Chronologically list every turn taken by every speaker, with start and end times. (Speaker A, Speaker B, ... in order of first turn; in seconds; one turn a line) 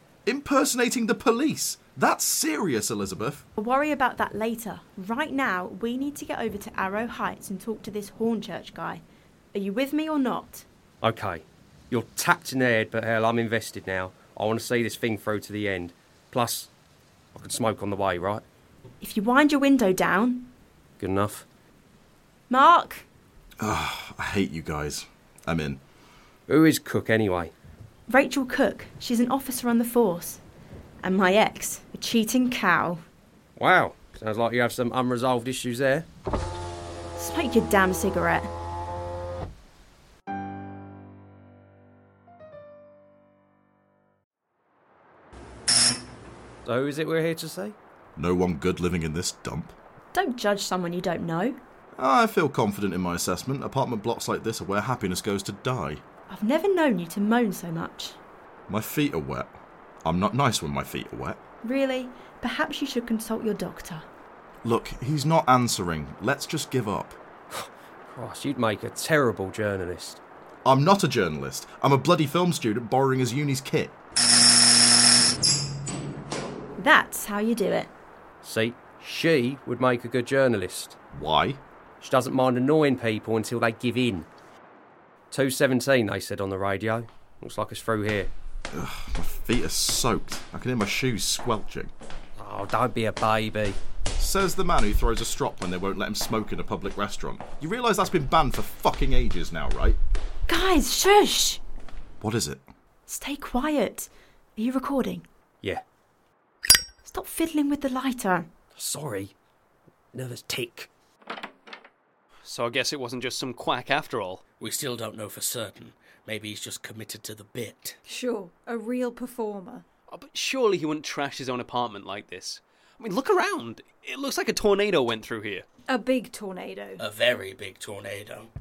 Speaker A: 0.3-3.4
Speaker B: 3.6-9.0
Speaker B: 9.5-10.7
Speaker C: 11.0-16.7
Speaker C: 17.4-18.4
Speaker B: 19.0-20.5
Speaker C: 21.0-21.4
Speaker B: 22.5-23.1
Speaker A: 23.6-25.8
Speaker C: 26.5-27.5
Speaker B: 28.1-30.4
Speaker B: 31.0-33.0
Speaker C: 33.6-36.1
Speaker B: 37.2-38.5
Speaker C: 46.6-47.8
Speaker A: 48.2-49.7
Speaker B: 50.1-51.6
Speaker A: 52.0-56.0
Speaker B: 56.3-58.2
Speaker A: 58.7-61.4
Speaker B: 61.6-64.1
Speaker A: 64.6-67.2
Speaker C: 67.5-70.2
Speaker A: 70.7-73.9
Speaker B: 76.8-77.9
Speaker C: 78.4-81.0
Speaker A: 81.1-81.6
Speaker C: 82.0-84.3
Speaker C: 85.3-88.3
Speaker A: 88.7-91.9
Speaker C: 92.4-93.8
Speaker A: 94.2-100.0
Speaker B: 100.5-101.6
Speaker A: 102.2-102.6
Speaker B: 103.1-105.3
Speaker B: 107.0-108.5
Speaker C: 108.8-109.3
Speaker C: 110.1-110.9
Speaker D: 112.5-114.4
Speaker E: 114.6-118.0
Speaker F: 118.1-119.8
Speaker D: 120.1-125.7
Speaker F: 125.9-127.0
Speaker E: 127.0-128.5